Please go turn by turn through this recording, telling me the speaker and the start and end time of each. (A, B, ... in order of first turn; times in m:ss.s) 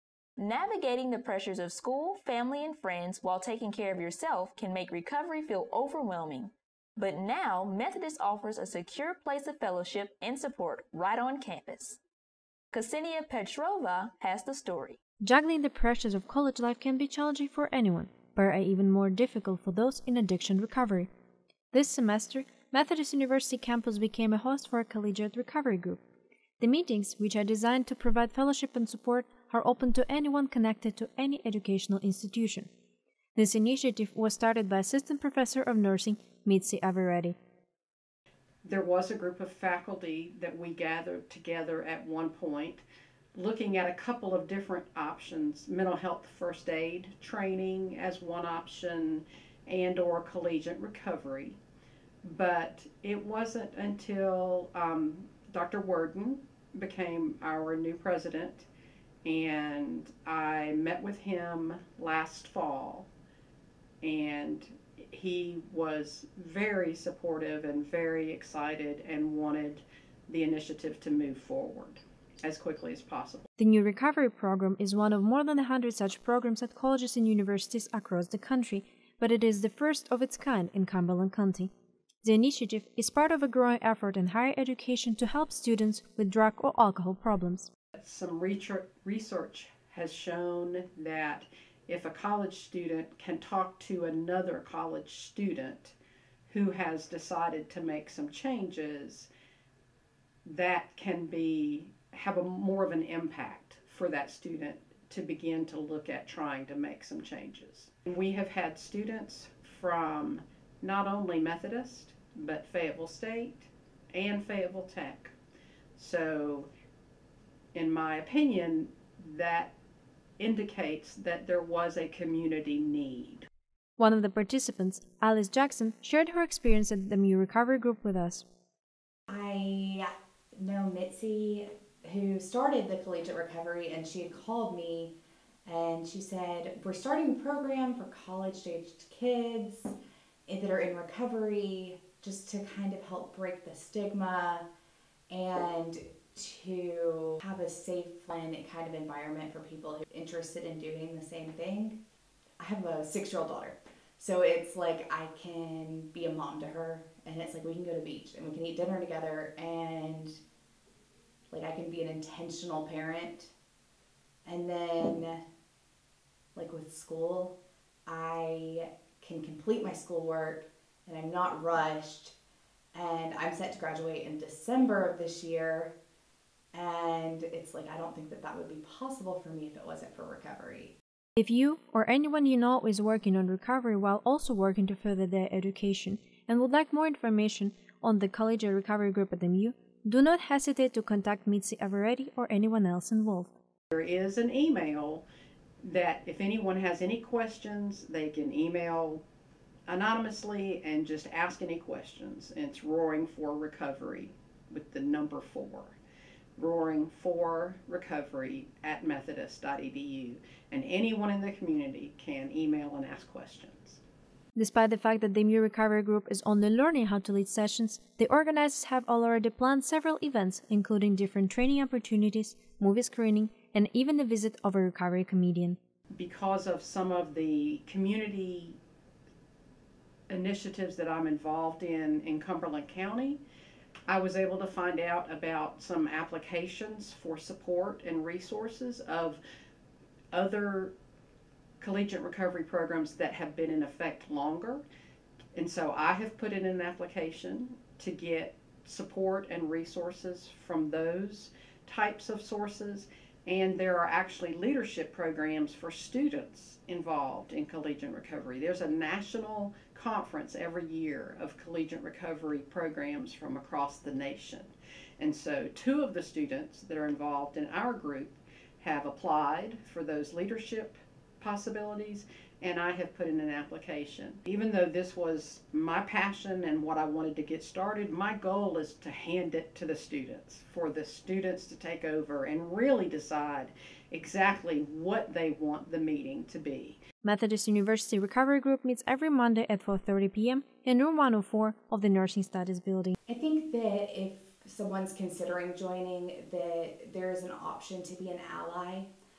0:00.4-0:12.0 A
0:12.7-0:15.0 A
0:15.2-0:21.1 B
0:21.7-0:26.0 B
0:26.6-0:32.7 B
0:33.3-0:37.4 B
0:38.6-0:42.8 C
0:43.3-0:51.6 C
0:52.2-0:58.7 C
0:59.2-1:03.1 C
1:04.0-1:13.5 C
1:13.6-1:21.7 B
1:22.2-1:27.7 B
1:27.9-1:35.9 C
1:36.5-1:39.3 C
1:40.4-1:55.3 C
1:56.0-1:56.7 C
1:57.7-1:59.7 C
2:00.4-2:03.5 C
2:04.0-2:08.4 B
2:09.3-2:19.9 D
2:20.4-2:24.6 D
2:25.3-2:32.0 D
2:32.6-2:40.4 D
2:41.5-2:43.5 D
2:44.4-2:45.4 D
2:46.5-2:52.4 D
2:52.9-2:55.9 D
2:56.7-3:00.9 D
3:01.4-3:13.5 B
3:13.9-3:15.2 C
3:15.8-3:19.2 C
3:19.9-3:26.0 C
3:26.6-3:34.0 C
3:34.6-3:45.8 B
3:46.1-3:48.8 C
3:50.3-3:53.4 C
3:54.1-3:59.4 C
4:00.3-4:00.9 C
4:01.8-4:04.8 C
4:05.5-4:47.0 C
4:47.2-4:53.1 B
4:53.3-4:59.1 D